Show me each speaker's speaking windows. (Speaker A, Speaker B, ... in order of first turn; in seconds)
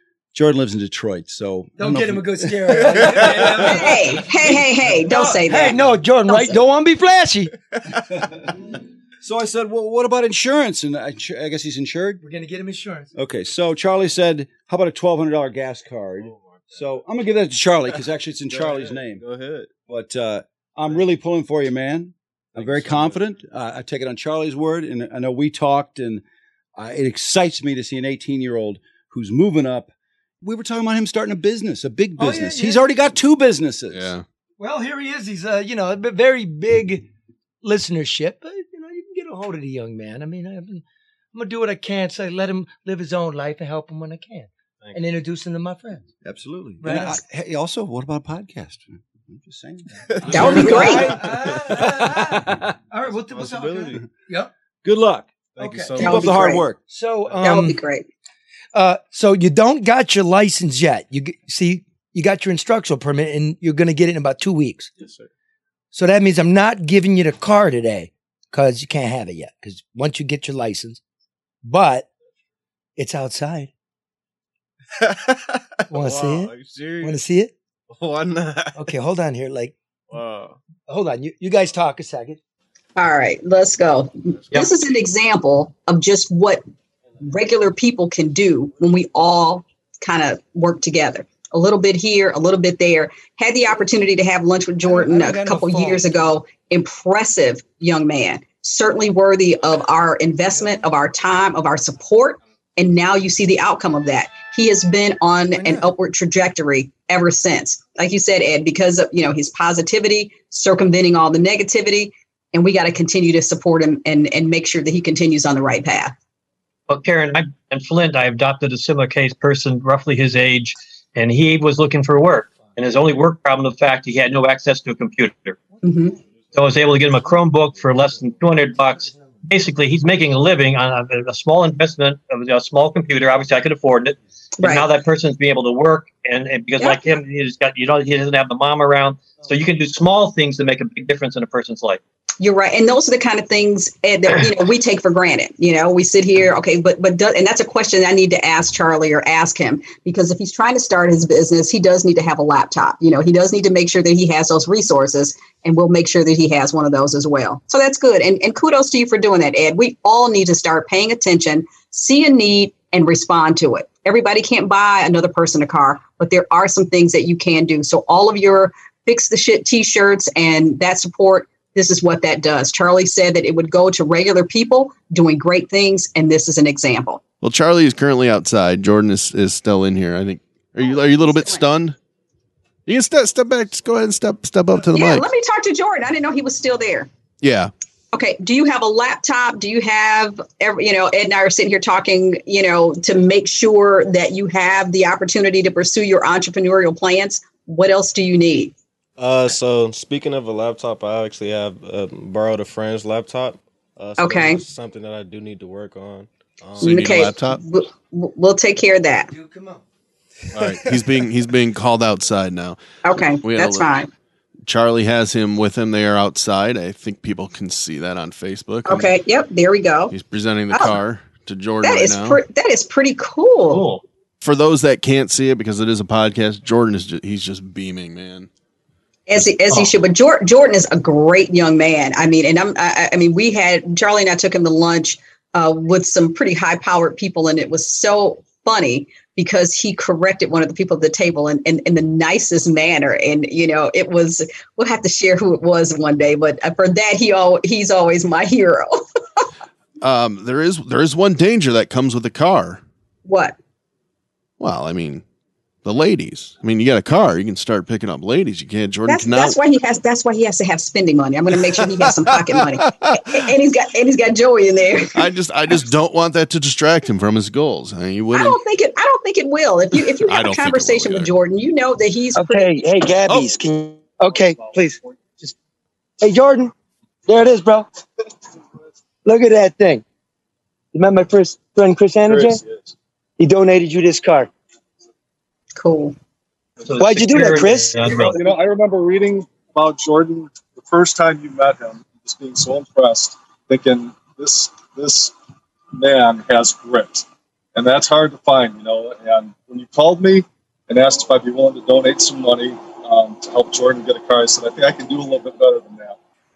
Speaker A: 0.3-4.1, 9.2-12.2, 13.1-19.2, 19.8-26.2, 26.8-34.2, 46.2-52.7, 54.8-56.8
Speaker B: 1.8-7.5, 12.2-13.1, 32.2-32.8, 34.6-37.0, 37.6-46.1, 46.8-47.2, 50.4-54.5, 56.9-57.8, 58.7-64.9, 65.9-71.0, 71.6-72.1, 73.0-73.7, 75.9-77.5, 78.7-79.7, 80.9-82.4, 94.8-96.1, 105.5-105.9, 209.3-209.8, 210.6-211.0, 272.4-275.5, 276.2-276.7, 277.3-277.9, 279.2-280.0, 280.9-282.6, 283.4-284.5, 287.0-287.9
Speaker C: 3.5-6.6, 50.3-51.1, 56.0-56.6, 57.4-58.1, 83.0-86.6, 87.2-116.1, 125.8-126.2, 134.6-134.9, 136.8-137.2, 142.4-177.2, 181.2-181.6, 184.9-187.1, 188.1-198.7, 204.2-204.6, 206.8-209.3, 213.0-214.1, 218.8-220.1, 220.7-221.0, 221.8-223.8, 229.3-249.0, 253.2-253.6, 259.1-265.3, 268.3-272.8, 285.8-286.1
Speaker D: 16.1-17.4, 17.9-19.7, 22.5-23.4, 53.0-54.0, 55.5-56.6, 65.0-65.3, 75.0-77.2, 77.9-78.9, 80.1-80.6, 199.2-207.3
Speaker E: 33.9-34.2, 177.4-181.9, 182.9-185.3, 187.4-187.7, 206.8-207.6, 210.5-212.8, 213.4-214.0, 214.7-219.1, 220.1-222.4, 224.4-228.5, 250.0-252.8, 254.6-255.2, 255.8-259.6, 261.9-263.2, 265.1-268.6, 269.9-271.3
Speaker F: 116.9-125.6, 126.5-142.0, 223.7-224.0, 229.7-229.9, 286.8-288.4
Speaker G: 274.2-275.1, 282.2-282.9, 288.0-295.3, 295.9-297.2, 297.7-306.2